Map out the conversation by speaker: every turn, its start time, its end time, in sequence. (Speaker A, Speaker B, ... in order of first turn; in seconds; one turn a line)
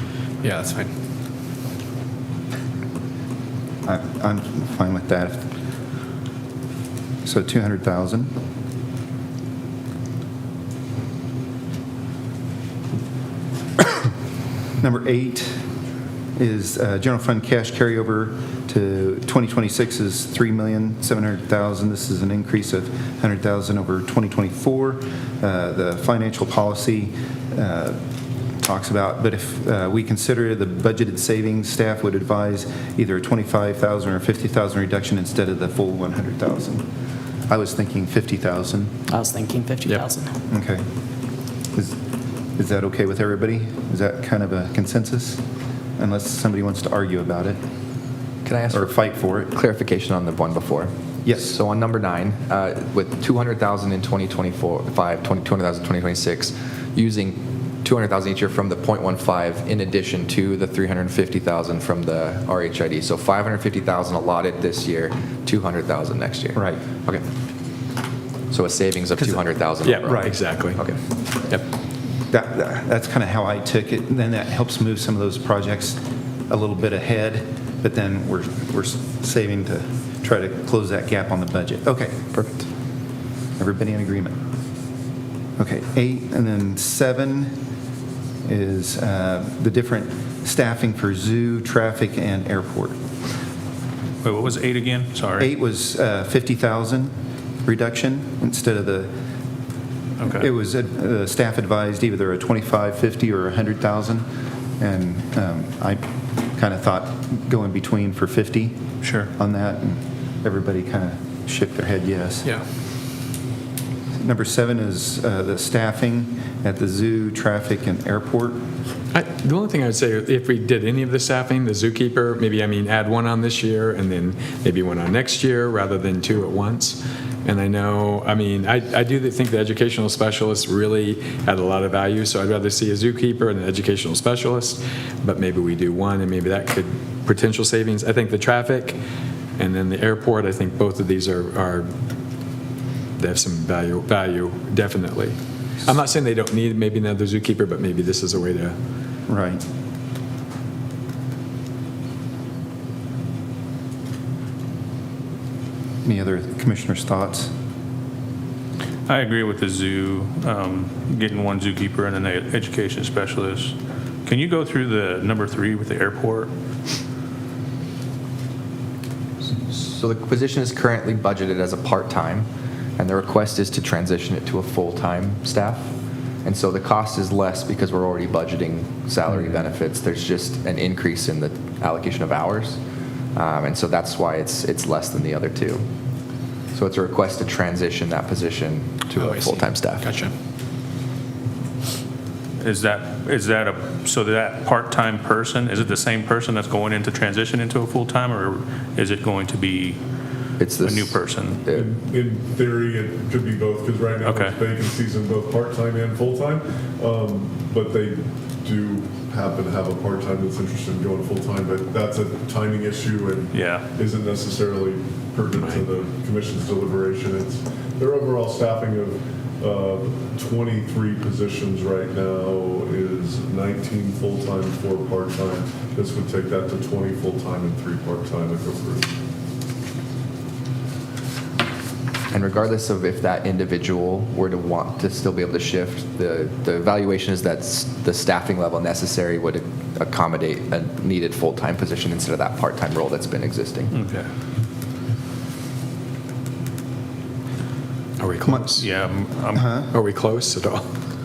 Speaker A: 3.9-5.4
Speaker A: 7.2-8.3
Speaker A: 14.8-15.6
Speaker A: 16.4-28.0
Speaker A: 28.6-36.8
Speaker A: 37.5-39.0
Speaker B: 39.1-40.3
Speaker A: 40.5-40.9
Speaker A: 42.6-45.4
Speaker A: 46.0-47.6
Speaker C: 48.5-67.2
Speaker A: 48.7-49.5
Speaker A: 51.2-51.6
Speaker A: 66.5-66.8
Speaker C: 68.5-71.0
Speaker D: 69.8-70.8
Speaker A: 70.0-70.4
Speaker A: 72.3-82.4
Speaker A: 83.6-84.3
Speaker A: 85.6-87.6
Speaker A: 88.5-93.0
Speaker E: 94.2-95.5
Speaker A: 95.4-97.1
Speaker A: 97.7-99.1
Speaker E: 100.2-100.5
Speaker A: 100.3-104.2
Speaker A: 104.8-106.0
Speaker A: 106.6-108.8
Speaker E: 109.0-109.3
Speaker A: 109.3-112.5
Speaker A: 114.2-118.6
Speaker D: 119.1-139.0
Speaker D: 139.6-141.9
Speaker D: 143.2-148.8
Speaker A: 149.3-149.6
Speaker A: 156.0-157.5
Speaker E: 159.1-166.5
Speaker C: 169.7-175.9
Speaker C: 176.4-182.8
Speaker C: 183.3-185.8
Speaker C: 186.7-190.1
Speaker B: 189.2-190.2
Speaker E: 192.6-200.0
Speaker C: 200.6-201.9
Speaker E: 200.8-201.6
Speaker F: 201.8-229.1
Speaker E: 204.2-204.6
Speaker E: 213.5-213.9
Speaker D: 215.5-215.9
Speaker C: 232.3-243.9
Speaker E: 243.9-244.2
Speaker D: 248.2-248.9
Speaker E: 248.8-249.7
Speaker A: 249.5-249.9
Speaker D: 249.9-250.9